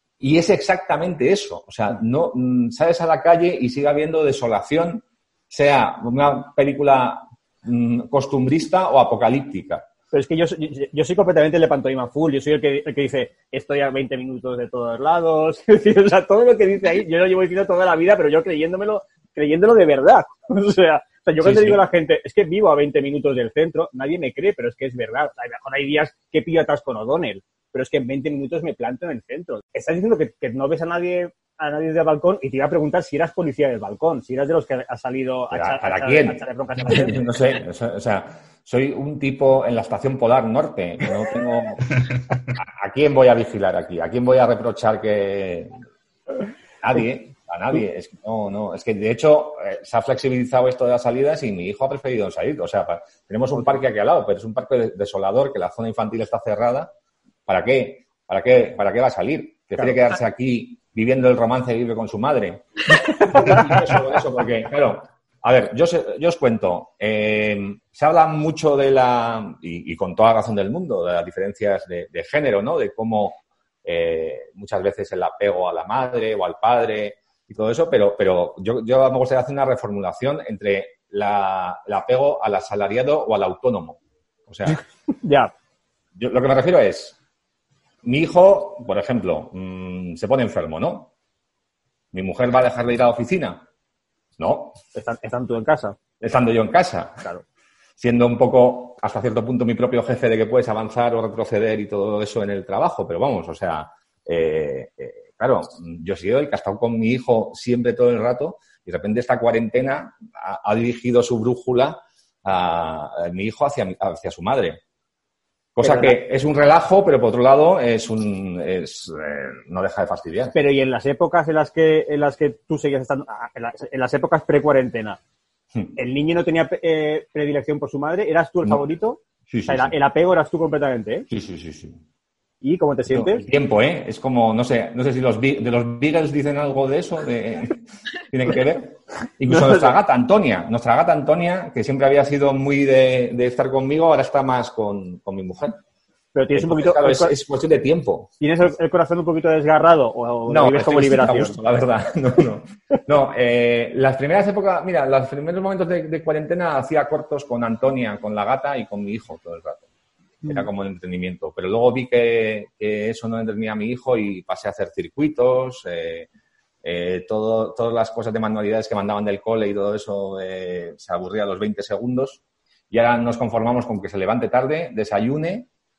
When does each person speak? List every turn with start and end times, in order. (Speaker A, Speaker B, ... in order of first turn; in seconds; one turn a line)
Speaker A: 0.2-9.9
Speaker B: 10.1-37.4
Speaker A: 21.4-21.8
Speaker A: 35.5-41.8
Speaker A: 42.6-45.8
Speaker A: 46.8-56.9
Speaker A: 57.5-84.8
Speaker B: 63.3-63.7
Speaker B: 84.7-85.5
Speaker A: 86.2-87.2
Speaker A: 88.0-91.1
Speaker A: 92.1-93.7
Speaker A: 94.4-94.8
Speaker B: 94.9-96.0
Speaker A: 96.2-97.3
Speaker A: 98.0-114.8
Speaker A: 115.8-120.5
Speaker B: 115.8-116.2
Speaker B: 120.5-125.2
Speaker B: 126.0-131.3
Speaker A: 129.5-129.9
Speaker A: 131.3-132.0
Speaker B: 132.6-133.5
Speaker A: 133.1-145.8
Speaker B: 139.5-140.0
Speaker B: 146.3-147.4
Speaker A: 146.5-148.3
Speaker B: 148.4-151.6
Speaker A: 150.5-159.9
Speaker B: 160.4-160.7
Speaker A: 160.5-166.3
Speaker A: 166.8-175.7